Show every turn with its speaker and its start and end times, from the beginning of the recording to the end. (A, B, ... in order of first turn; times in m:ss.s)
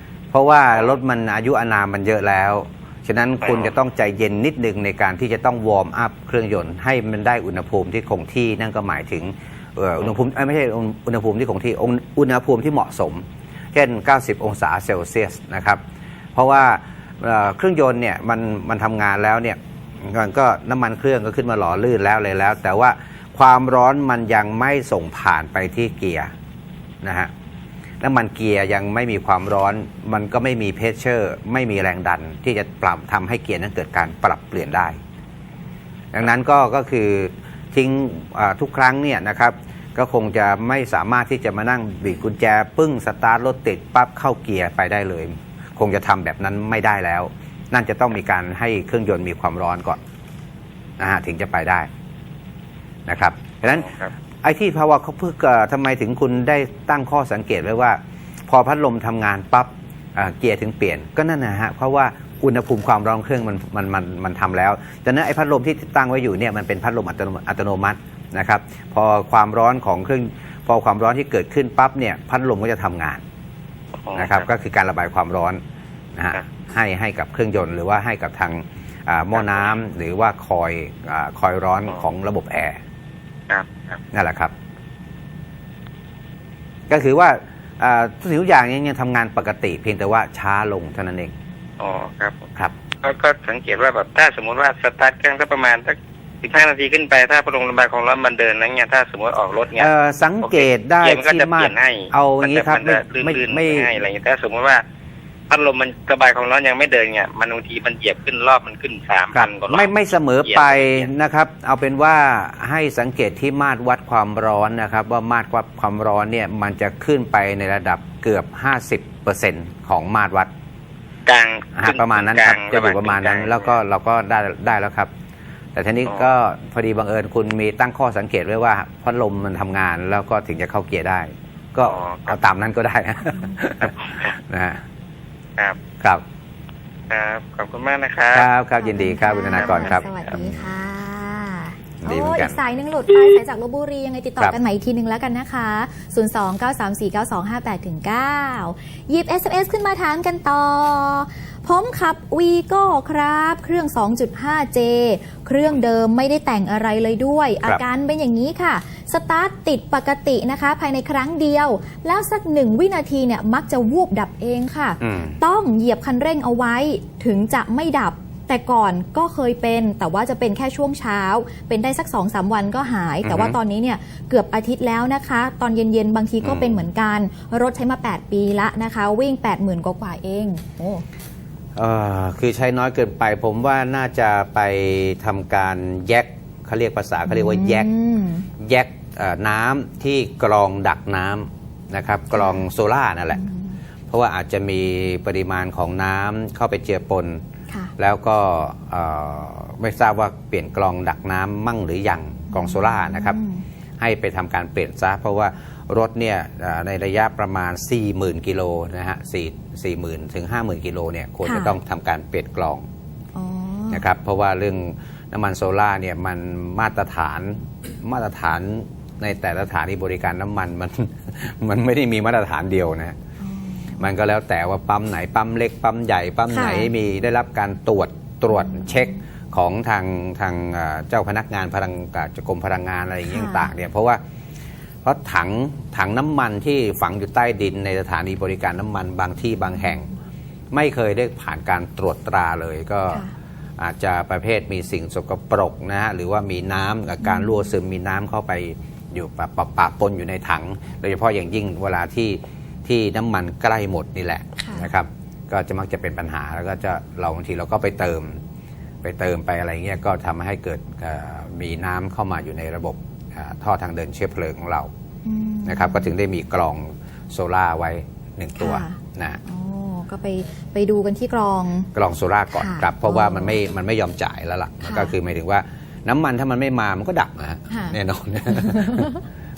0:00.3-0:15.8 A
0:16.3-0:26.3 A
0:27.0-0:27.3 A
0:28.0-0:35.0 A
0:36.1-0:50.0 A
0:51.0-0:51.9 A
0:53.1-0:53.9 A
0:53.8-0:54.1 B
0:54.4-1:13.2 A
1:14.0-1:14.4 B
1:14.1-1:15.6 A
1:16.1-1:22.8 A
1:23.5-1:24.0 B
1:24.1-1:24.5 A
1:26.9-1:31.3 A
1:31.8-1:32.4 B
1:33.0-1:39.9 B
1:39.8-1:43.9 A
1:40.4-1:44.8 B
1:45.5-1:49.9 B
1:49.3-2:00.5 A
1:50.4-1:51.1 B
2:01.2-2:03.6 B
2:01.8-2:05.1 A
2:05.7-2:14.8 A
2:11.9-2:12.4 B
2:17.1-2:18.5 B
2:18.3-2:20.6 A
2:18.8-3:01.0 C
2:19.5-2:20.3 B
2:22.0-2:22.6 A
2:45.0-2:45.4 A
2:53.2-2:53.6 A
2:56.4-2:56.8 A
3:01.8-3:07.9 A
3:07.2-3:08.5 C
3:08.6-3:13.4 A
3:12.3-3:12.6 C
3:13.3-3:13.8 C
3:14.1-3:17.4 A
3:18.0-3:23.4 A
3:22.5-3:23.6 C
3:24.0-3:32.8 A
3:31.4-3:31.8 C
3:33.3-3:34.0 C
3:33.9-3:43.2 A
3:43.4-3:44.0 C
3:44.0-3:54.2 A
3:46.5-3:46.9 C
3:48.6-3:49.2 C
3:53.3-3:53.7 C
3:55.0-4:00.1 A
4:00.7-4:03.2 A
4:03.8-4:18.4 A
4:07.2-4:07.6 C
4:14.6-4:14.9 C
4:19.0-4:24.9 A
4:25.2-4:26.1 C
4:25.6-4:29.4 A
4:28.6-4:31.9 C
4:31.9-4:39.1 A
4:32.5-4:33.6 C
4:34.8-4:35.1 C
4:37.7-4:38.0 C
4:38.5-4:39.2 C